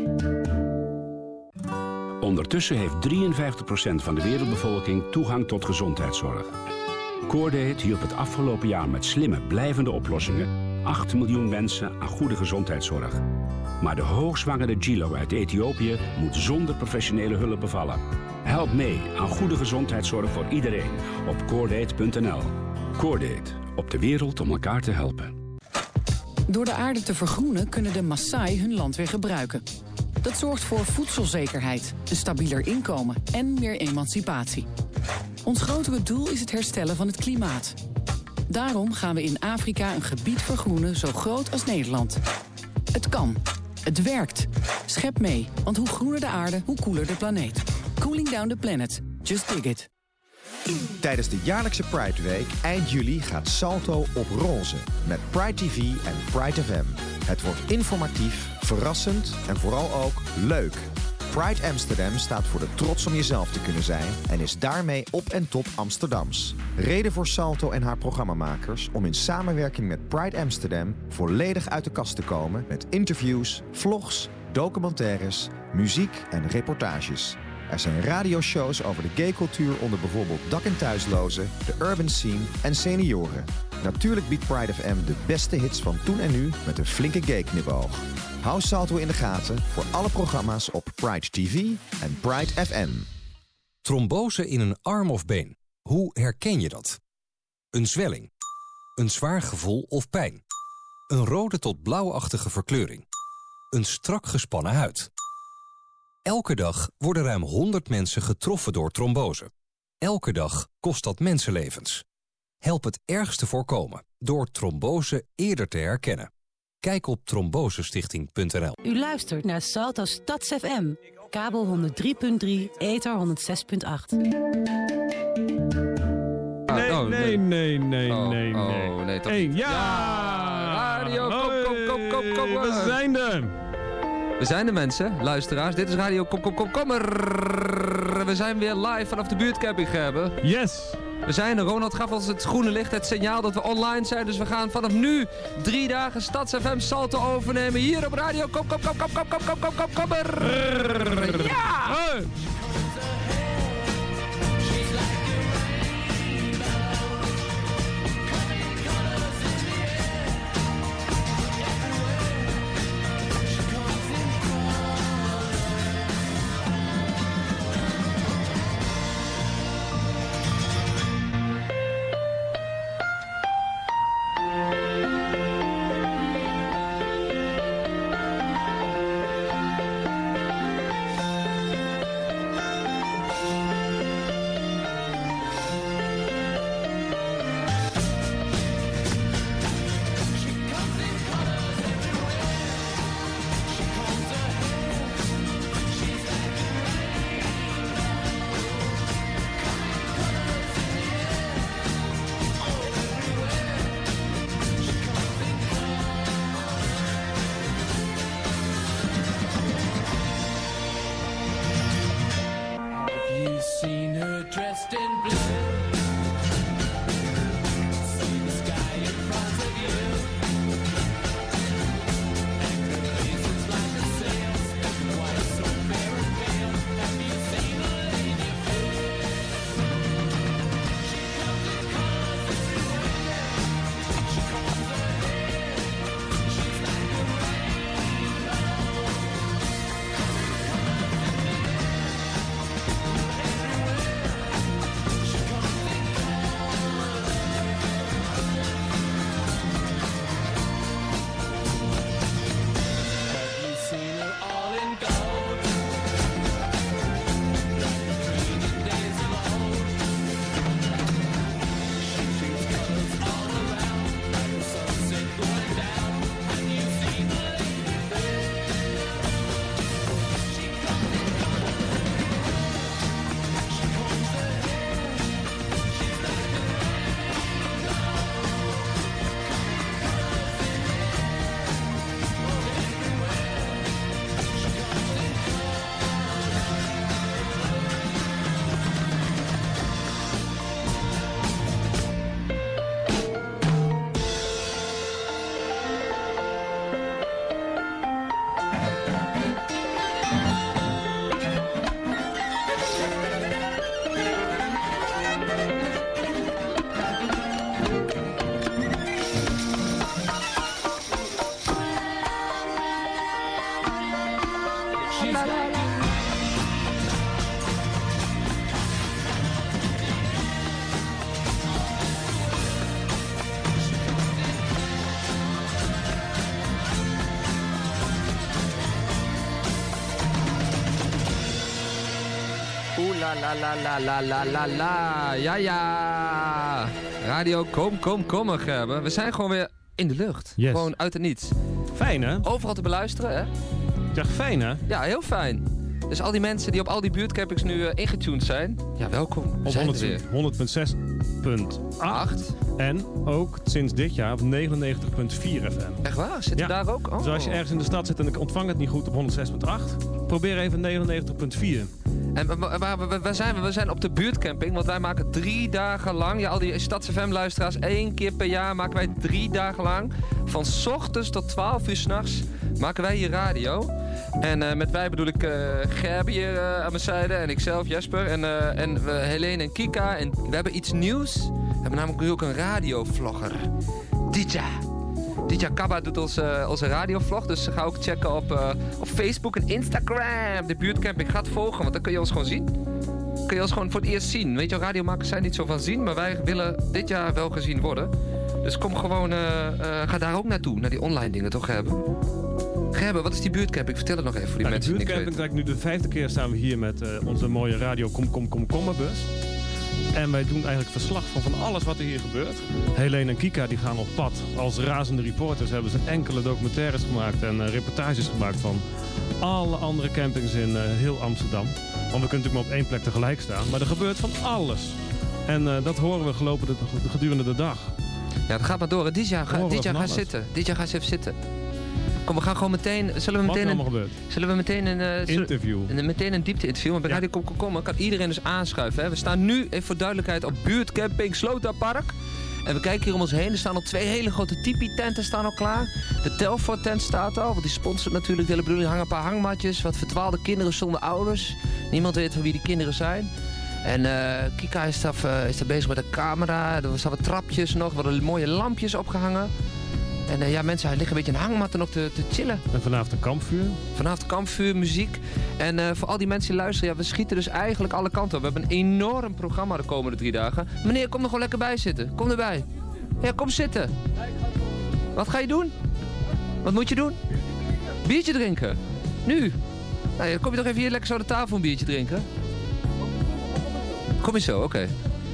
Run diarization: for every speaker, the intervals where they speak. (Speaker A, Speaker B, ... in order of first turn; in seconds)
Speaker A: 2.2-6.5, 7.3-13.2, 13.8-25.3
Speaker B: 26.5-29.6, 30.2-34.7, 35.4-37.8, 38.5-42.2, 42.9-49.9
Speaker C: 50.7-93.1
Speaker D: 93.8-97.0, 97.7-98.3, 99.0-100.4, 101.1-103.0, 103.7-105.1, 106.2-112.0, 112.6-116.3, 116.8-118.8
Speaker E: 118.8-124.2
Speaker F: 126.7-127.4, 128.0-133.0, 134.4-140.4, 141.2-152.0, 315.2-315.6, 332.9-341.5, 342.4-343.5, 344.9-350.2, 352.0-352.5, 356.0-357.6, 362.3-383.7, 384.3-384.8, 385.4-392.7, 393.5-398.1, 398.6-402.0, 402.9-405.3, 428.5-431.3, 432.2-442.1, 442.6-453.3, 453.8-459.5, 460.3-462.6, 463.9-472.6, 473.2-473.9, 475.1-475.7, 476.6-477.2, 478.0-479.6, 480.2-482.2, 484.2-484.9
Speaker G: 126.7-133.5, 140.4-141.0, 150.4-152.3, 340.6-340.9, 341.9-342.4, 344.1-344.8, 349.6-356.0, 356.6-361.9, 404.6-409.3, 410.1-418.8, 419.4-427.9, 429.5-430.3, 433.4-434.1, 435.3-435.9, 462.7-463.8